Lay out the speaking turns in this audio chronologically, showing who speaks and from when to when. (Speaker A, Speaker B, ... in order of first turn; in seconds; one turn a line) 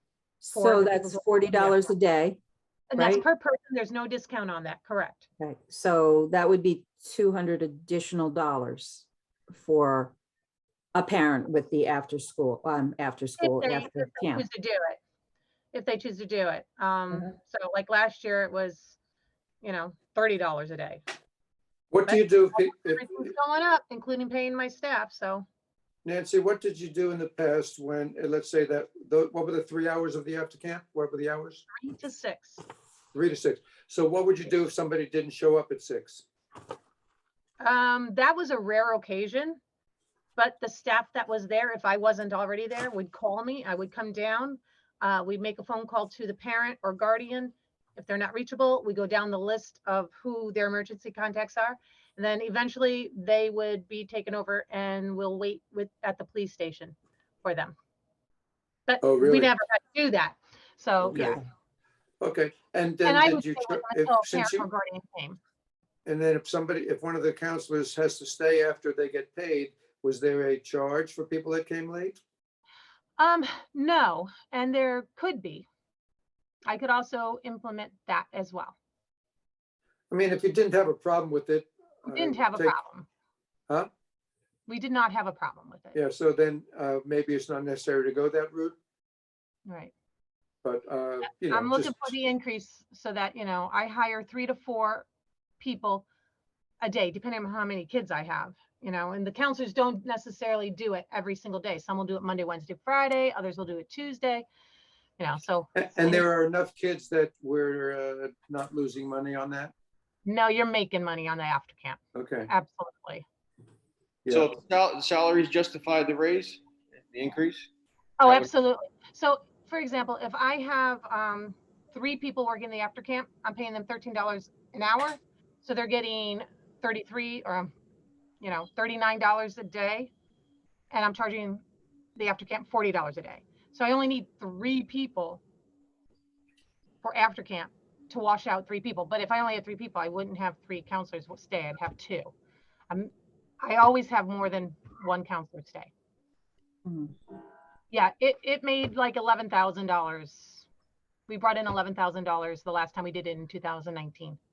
Speaker A: 0.4-2.4
Speaker B: 0.5-1.9
Speaker B: 2.9-5.3
Speaker A: 3.0-3.2
Speaker A: 5.4-10.2
Speaker A: 10.9-14.5
Speaker B: 13.4-15.0
Speaker B: 15.7-19.0
Speaker B: 19.6-21.0
Speaker C: 21.9-23.3
Speaker B: 22.1-25.5
Speaker C: 26.1-31.6
Speaker B: 31.8-32.6
Speaker C: 33.1-36.2
Speaker B: 37.6-39.6
Speaker B: 40.4-57.8
Speaker B: 58.9-61.4
Speaker C: 59.0-59.5
Speaker C: 62.2-64.7
Speaker B: 63.0-65.4
Speaker C: 66.1-72.2
Speaker B: 73.2-75.7
Speaker B: 76.7-78.8
Speaker C: 80.1-82.7
Speaker B: 82.1-83.1
Speaker B: 84.7-86.0
Speaker C: 86.0-88.8
Speaker B: 89.7-89.9
Speaker C: 90.6-92.1
Speaker B: 91.4-95.1
Speaker B: 95.6-96.0
Speaker B: 96.8-104.5
Speaker B: 105.2-106.2
Speaker C: 105.8-109.7
Speaker B: 110.2-113.2
Speaker C: 112.2-112.5
Speaker C: 114.2-114.5
Speaker D: 114.3-117.7
Speaker B: 118.2-127.7
Speaker D: 118.2-118.5
Speaker B: 128.4-130.1
Speaker B: 130.9-131.6
Speaker B: 132.2-135.4
Speaker B: 137.0-142.3
Speaker B: 142.9-145.9
Speaker A: 146.8-147.1
Speaker B: 147.9-150.7
Speaker B: 151.3-154.4